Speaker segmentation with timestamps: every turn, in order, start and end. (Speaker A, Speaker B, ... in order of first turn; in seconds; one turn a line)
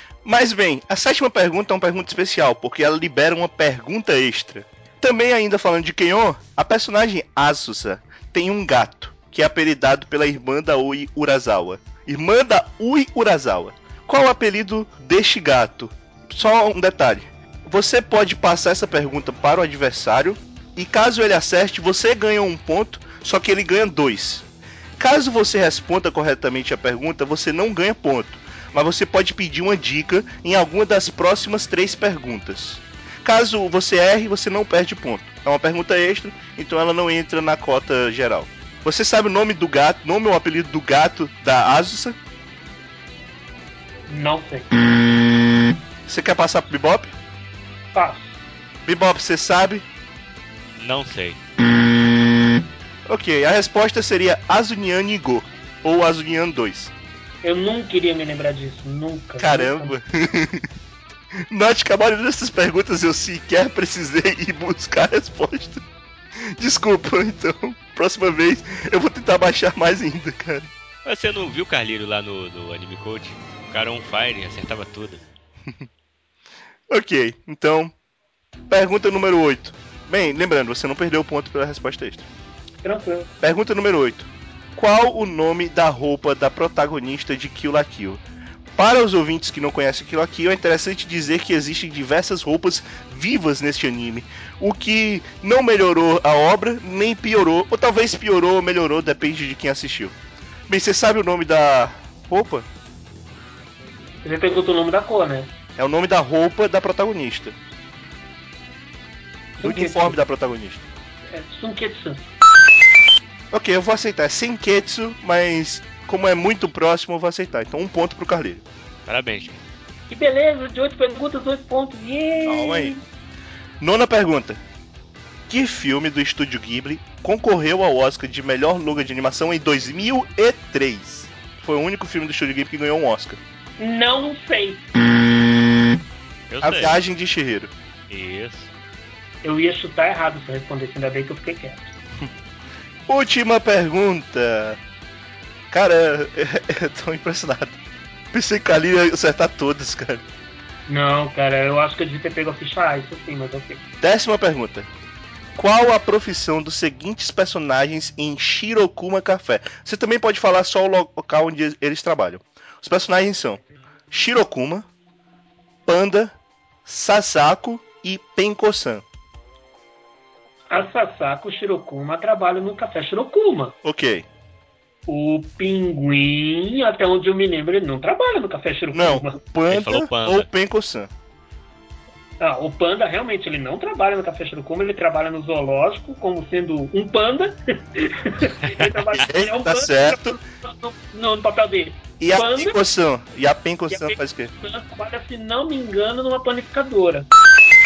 Speaker A: 0.2-24.5
Speaker A: 25.0-42.2
Speaker B: 44.1-44.7
Speaker A: 46.1-47.1
Speaker B: 47.9-48.4
Speaker A: 48.9-49.9
Speaker C: 50.8-51.4
Speaker A: 53.1-56.9
Speaker B: 57.4-60.0
Speaker A: 59.4-60.7
Speaker A: 61.5-65.8
Speaker A: 66.5-70.7
Speaker C: 71.0-75.2
Speaker A: 76.9-77.9
Speaker A: 78.7-82.3
Speaker B: 82.8-83.3
Speaker A: 83.4-88.2
Speaker A: 88.8-100.2
Speaker A: 100.7-102.7
Speaker B: 104.2-105.5
Speaker A: 105.8-107.5
Speaker B: 109.6-110.2
Speaker A: 109.6-110.8
Speaker B: 111.3-112.3
Speaker A: 113.5-118.6
Speaker C: 119.1-119.6
Speaker B: 120.1-123.0
Speaker A: 122.5-122.9
Speaker A: 123.8-124.6
Speaker A: 125.5-133.4
Speaker B: 133.8-134.8
Speaker C: 136.5-137.0
Speaker A: 136.6-137.7
Speaker C: 138.1-138.7
Speaker B: 139.4-141.9
Speaker A: 143.1-144.8
Speaker A: 145.7-147.8
Speaker A: 148.3-150.2
Speaker B: 150.9-153.8
Speaker A: 154.0-154.9
Speaker A: 155.6-164.9
Speaker A: 165.9-166.3
Speaker A: 166.9-169.1
Speaker B: 170.7-173.8
Speaker A: 173.8-174.3
Speaker B: 175.1-179.4
Speaker A: 178.9-181.1
Speaker C: 179.7-180.5
Speaker B: 182.4-192.8
Speaker A: 189.2-190.4
Speaker A: 192.2-194.5
Speaker B: 193.9-197.3